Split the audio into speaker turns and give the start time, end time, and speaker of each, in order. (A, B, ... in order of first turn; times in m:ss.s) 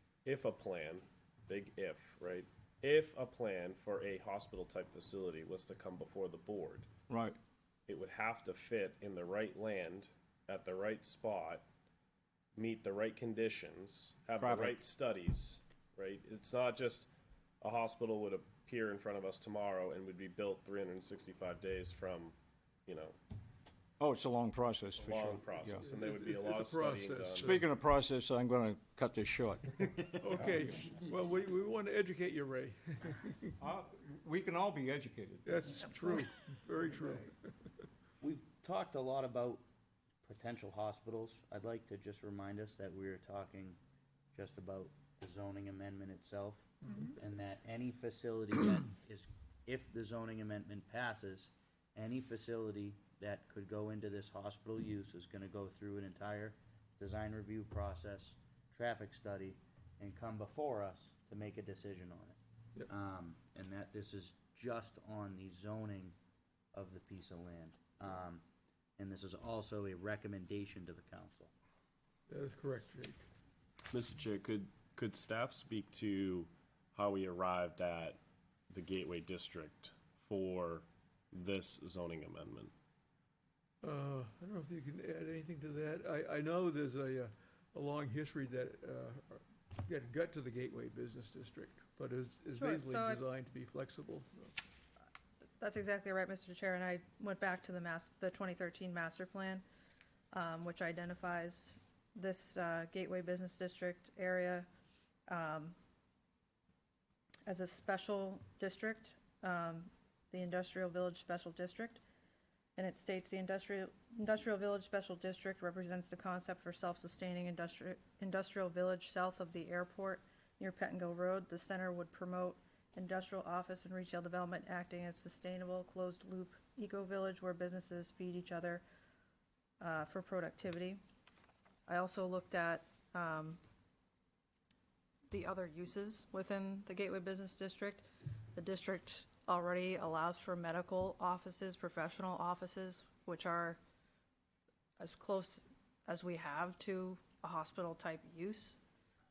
0:00.2-0:06.9 A
0:07.1-0:07.4 B
0:07.9-0:11.7 A
0:12.6-0:22.4 A
0:14.4-0:14.8 B
0:22.9-0:23.2 A
0:24.0-0:25.8 B
0:25.0-0:27.6 A
0:25.8-0:27.7 C
0:27.4-0:29.7 B
0:30.1-0:33.5 C
0:33.6-0:35.9 B
0:35.4-0:37.5 C
0:38.2-0:39.6 D
0:40.2-0:43.8 D
0:44.3-1:06.2 D
1:06.7-1:08.4 D
1:09.0-1:11.5 D
1:12.3-1:13.2 C
1:13.9-1:18.2 A
1:18.7-1:22.7 A
1:23.8-1:34.5 C
1:32.6-1:33.2 E
1:35.6-1:39.6 E
1:40.3-1:44.7 E
1:45.3-1:45.8 E
1:47.5-1:52.0 E
1:52.8-2:08.8 E
2:09.8-2:11.0 E
2:11.9-2:13.6 E
2:15.3-2:23.8 E
2:25.0-2:28.8 E